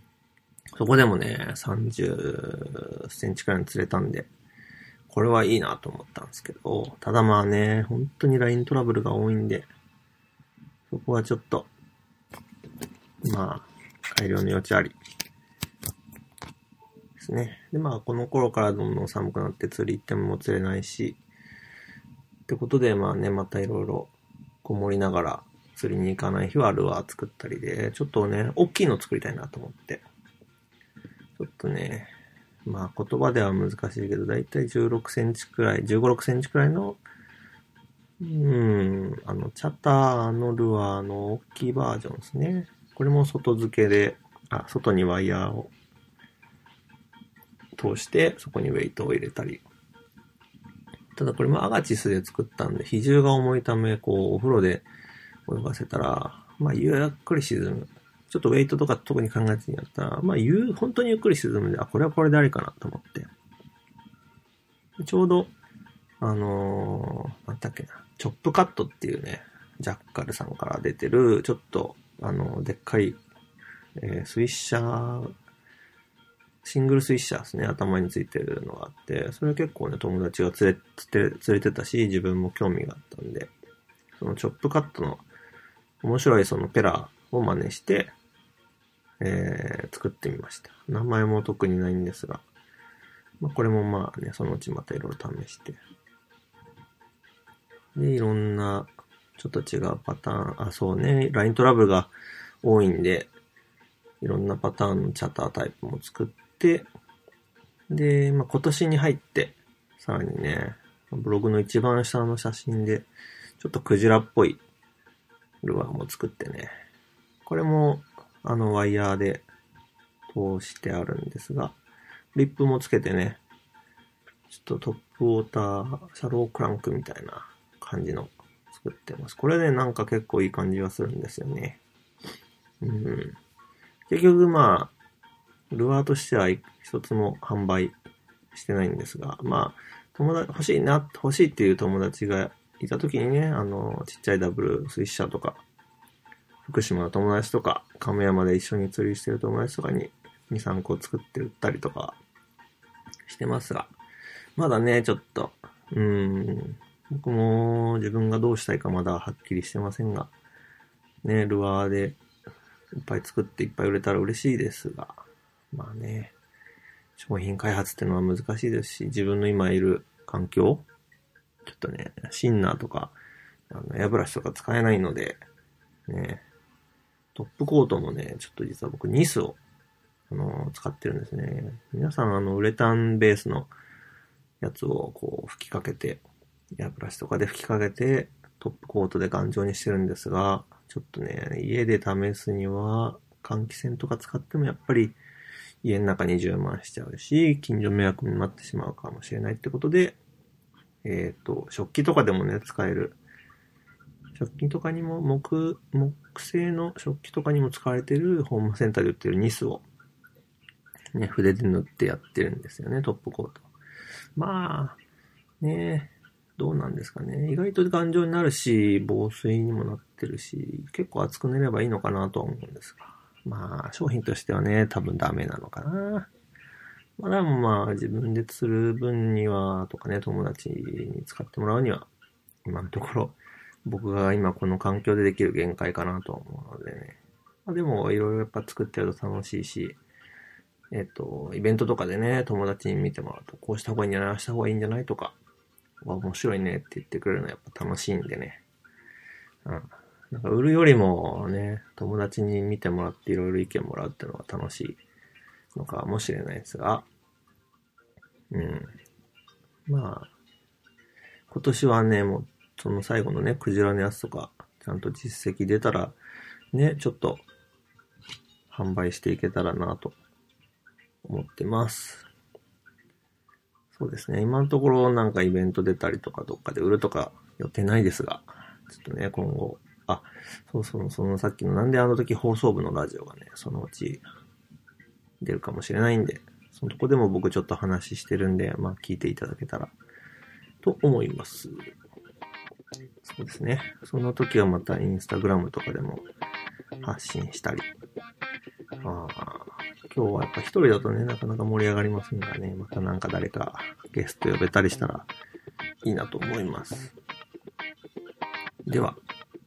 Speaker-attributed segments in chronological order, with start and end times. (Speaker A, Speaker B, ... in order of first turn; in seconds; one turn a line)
Speaker A: 0.8-4.3
Speaker A: 5.1-9.7
Speaker A: 10.9-11.7
Speaker A: 13.2-15.0
Speaker A: 17.2-21.2
Speaker A: 22.5-24.1
Speaker A: 24.6-30.1
Speaker A: 31.4-32.1
Speaker A: 32.6-37.0
Speaker A: 38.2-45.7
Speaker A: 47.8-49.6
Speaker A: 51.2-54.9
Speaker A: 55.5-63.3
Speaker A: 65.0-65.5
Speaker A: 66.2-73.2
Speaker A: 74.0-75.3
Speaker A: 76.6-83.5
Speaker A: 84.2-85.2
Speaker A: 86.0-88.1
Speaker A: 89.2-92.4
Speaker A: 93.4-95.8
Speaker A: 98.0-102.1
Speaker A: 102.6-103.3
Speaker A: 104.2-106.9
Speaker A: 107.9-113.1
Speaker A: 113.6-114.6
Speaker A: 115.6-116.7
Speaker A: 117.5-119.5
Speaker A: 120.3-121.8
Speaker A: 122.3-123.4
Speaker A: 124.5-131.8
Speaker A: 132.8-133.4
Speaker A: 134.1-134.9
Speaker A: 135.7-138.0
Speaker A: 138.5-145.6
Speaker A: 146.6-152.2
Speaker A: 153.3-153.9
Speaker A: 154.6-160.3
Speaker A: 161.2-162.2
Speaker A: 163.0-165.2
Speaker A: 165.7-166.3
Speaker A: 167.2-170.9
Speaker A: 171.7-173.2
Speaker A: 173.7-175.4
Speaker A: 176.1-176.4
Speaker A: 177.3-179.6
Speaker A: 180.3-183.7
Speaker A: 184.6-186.2
Speaker A: 186.8-195.2
Speaker A: 195.8-200.2
Speaker A: 201.0-203.2
Speaker A: 204.4-209.9
Speaker A: 211.1-213.7
Speaker A: 214.4-215.0
Speaker A: 215.6-226.3
Speaker A: 227.2-232.1
Speaker A: 232.7-240.0
Speaker A: 240.9-245.4
Speaker A: 246.0-248.6
Speaker A: 249.7-255.0
Speaker A: 255.8-257.1
Speaker A: 258.5-258.9
Speaker A: 259.9-260.3
Speaker A: 261.5-266.2
Speaker A: 266.7-267.5
Speaker A: 268.7-270.2
Speaker A: 271.2-272.3
Speaker A: 273.9-284.2
Speaker A: 285.4-289.9
Speaker A: 290.8-291.9
Speaker A: 293.2-296.3
Speaker A: 297.0-297.9
Speaker A: 299.0-305.3
Speaker A: 306.0-307.1
Speaker A: 308.9-309.2